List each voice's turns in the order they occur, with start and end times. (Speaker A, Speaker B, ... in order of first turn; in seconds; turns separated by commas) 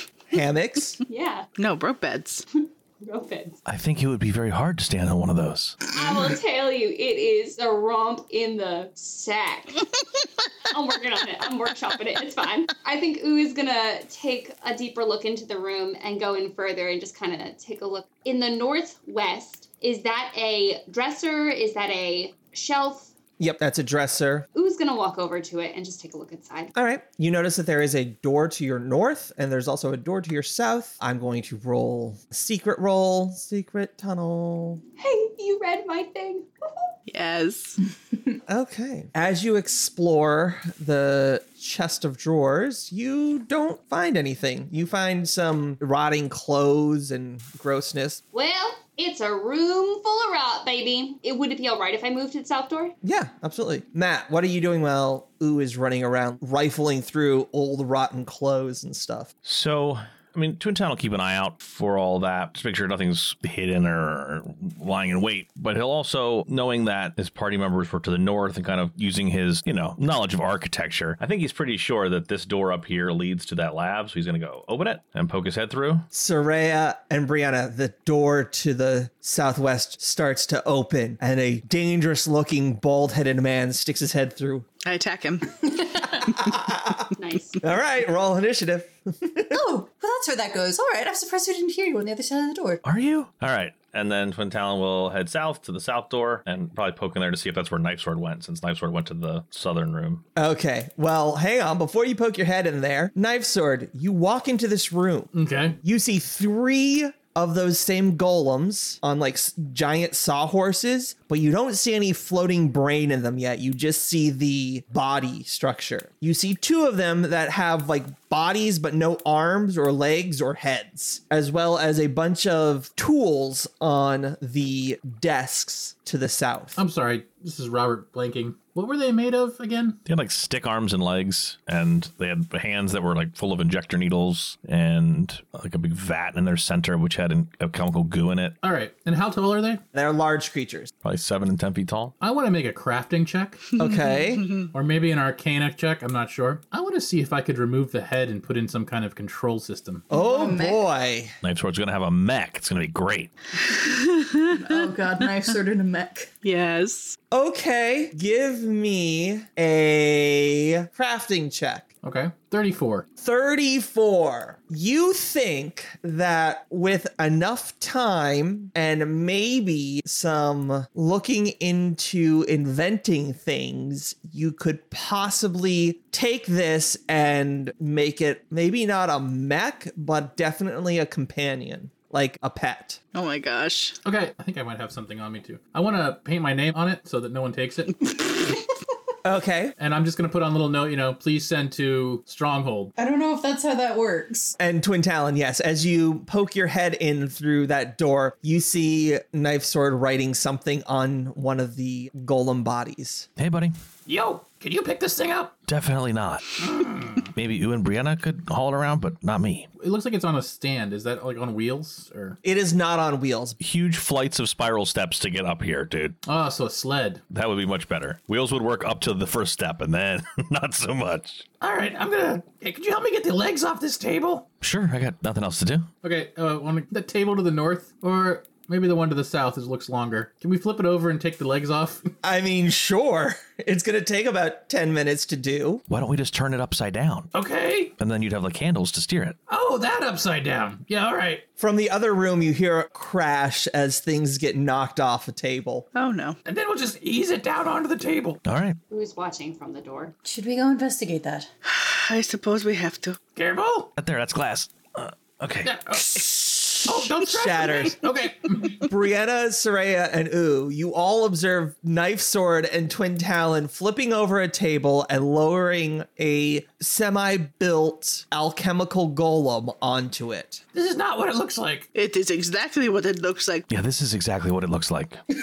Speaker A: 0.3-1.0, Speaker B: 1.1-1.5, Speaker C: 1.6-2.5, Speaker B: 2.5-3.6, Speaker D: 3.6-5.8, Speaker B: 5.9-9.8, Speaker B: 10.7-23.1, Speaker A: 23.4-24.5, Speaker B: 24.5-26.7, Speaker A: 26.7-34.8, Speaker B: 35.0-36.9, Speaker C: 37.1-37.8, Speaker A: 38.5-48.2, Speaker B: 48.3-52.9, Speaker A: 53.0-59.3, Speaker D: 59.4-76.1, Speaker A: 76.1-84.7, Speaker C: 84.8-85.7, Speaker A: 86.2-87.1, Speaker B: 87.2-87.6, Speaker A: 87.6-89.6, Speaker E: 89.5-92.8, Speaker D: 92.8-100.2, Speaker A: 100.3-126.8, Speaker F: 105.3-105.8, Speaker F: 126.8-130.0, Speaker D: 130.1-138.6, Speaker F: 138.6-139.8, Speaker A: 139.9-140.9, Speaker D: 141.0-142.1, Speaker F: 142.2-143.6, Speaker A: 143.8-144.5, Speaker F: 144.7-150.1, Speaker A: 150.1-151.3, Speaker E: 150.1-150.8, Speaker D: 151.4-153.3, Speaker C: 153.8-154.8, Speaker E: 154.5-156.3, Speaker C: 156.4-157.2, Speaker A: 157.3-161.9, Speaker F: 162.0-163.1, Speaker A: 163.2-183.0, Speaker C: 183.1-184.0, Speaker F: 184.0-188.3, Speaker A: 189.2-189.7, Speaker F: 189.8-192.9, Speaker E: 193.0-194.6, Speaker A: 194.6-203.3, Speaker D: 203.4-203.7, Speaker F: 204.1-205.6, Speaker D: 205.7-206.6, Speaker F: 206.6-207.3, Speaker D: 207.3-209.7, Speaker F: 209.8-212.4, Speaker A: 212.4-213.6, Speaker D: 213.6-216.2, Speaker F: 216.2-217.2, Speaker D: 217.3-221.5, Speaker F: 221.6-224.5, Speaker D: 224.6-225.9, Speaker F: 226.0-232.1, Speaker A: 232.2-235.8, Speaker D: 235.9-237.3, Speaker F: 237.3-237.9, Speaker D: 238.0-239.4, Speaker F: 239.5-241.4, Speaker A: 241.6-245.9, Speaker C: 245.9-246.4, Speaker F: 246.4-248.4, Speaker D: 248.4-248.8, Speaker B: 248.9-250.1, Speaker E: 250.2-251.5, Speaker C: 251.7-253.2, Speaker F: 253.3-253.9, Speaker D: 254.0-256.0, Speaker F: 255.6-256.2, Speaker F: 256.8-258.9, Speaker A: 256.9-258.0, Speaker A: 258.8-270.6, Speaker F: 270.7-271.9, Speaker C: 271.9-273.6, Speaker D: 273.7-275.2